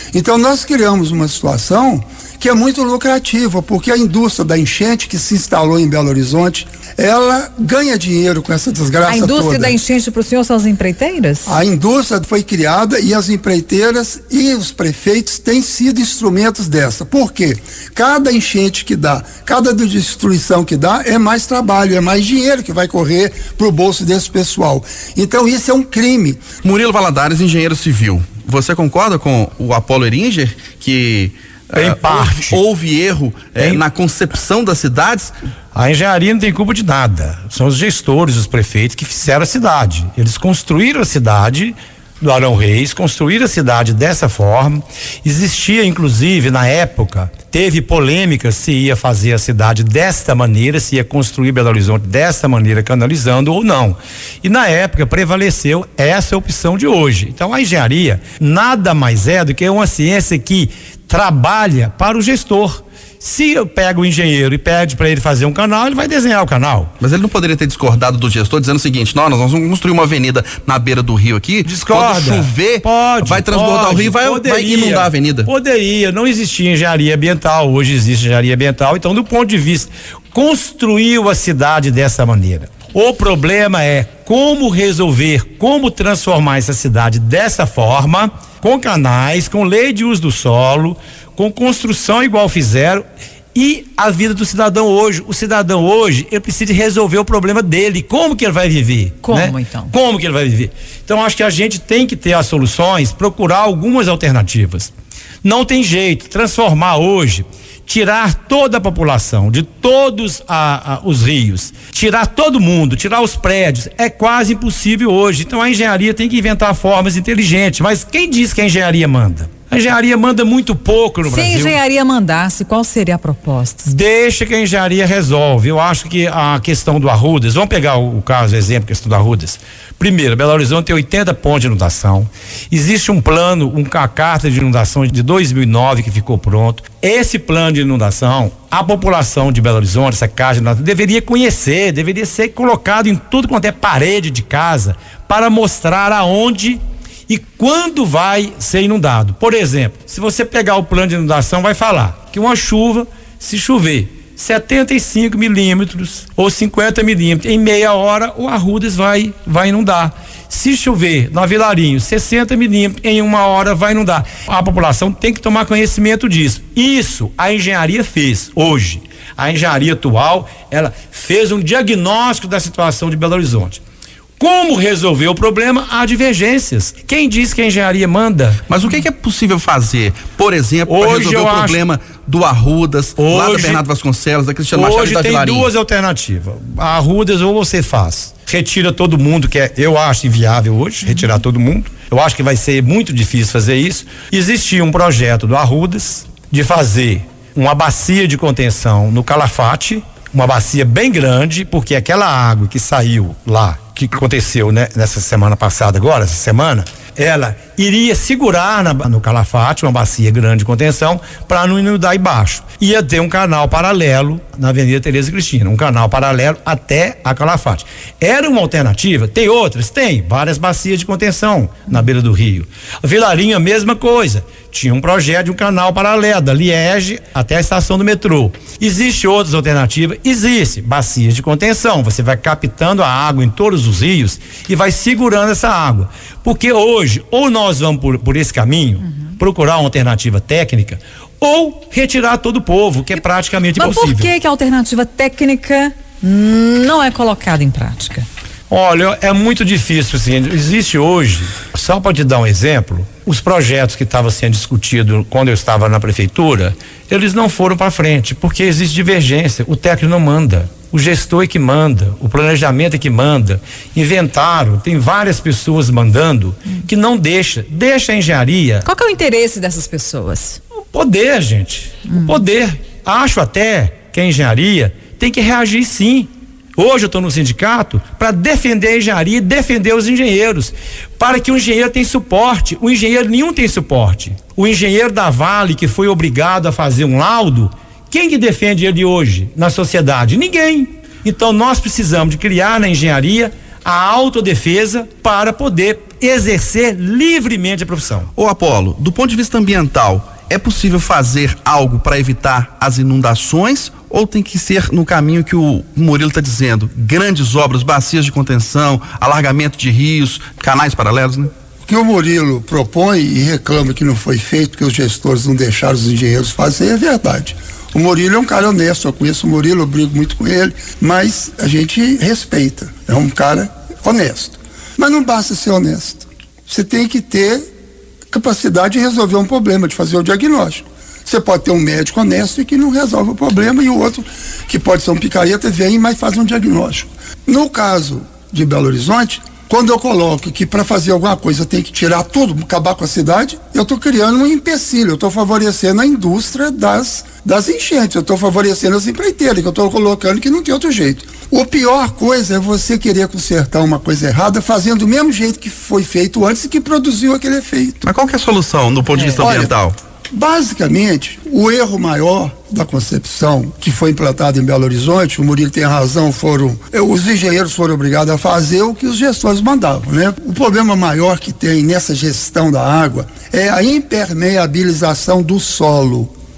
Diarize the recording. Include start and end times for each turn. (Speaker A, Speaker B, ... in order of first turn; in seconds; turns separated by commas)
Speaker A: 0.1-9.8, Speaker B: 9.1-11.5, Speaker A: 11.4-26.5, Speaker C: 26.6-35.3, Speaker D: 31.8-32.6, Speaker D: 33.6-33.8, Speaker D: 35.7-66.9, Speaker C: 67.0-75.5, Speaker D: 71.6-93.0, Speaker D: 93.5-104.9, Speaker B: 99.2-99.9, Speaker D: 105.4-121.8, Speaker B: 121.2-123.9, Speaker D: 123.8-173.8, Speaker D: 174.4-178.6, Speaker C: 178.7-185.7, Speaker D: 180.8-181.8, Speaker D: 183.2-183.8, Speaker D: 184.7-244.3, Speaker B: 243.8-248.2, Speaker D: 248.7-268.8, Speaker B: 268.8-270.6, Speaker D: 270.9-298.3, Speaker C: 298.4-311.5, Speaker A: 311.8-327.6, Speaker A: 328.3-358.0, Speaker C: 358.0-360.0, Speaker A: 359.4-359.7, Speaker A: 360.3-376.3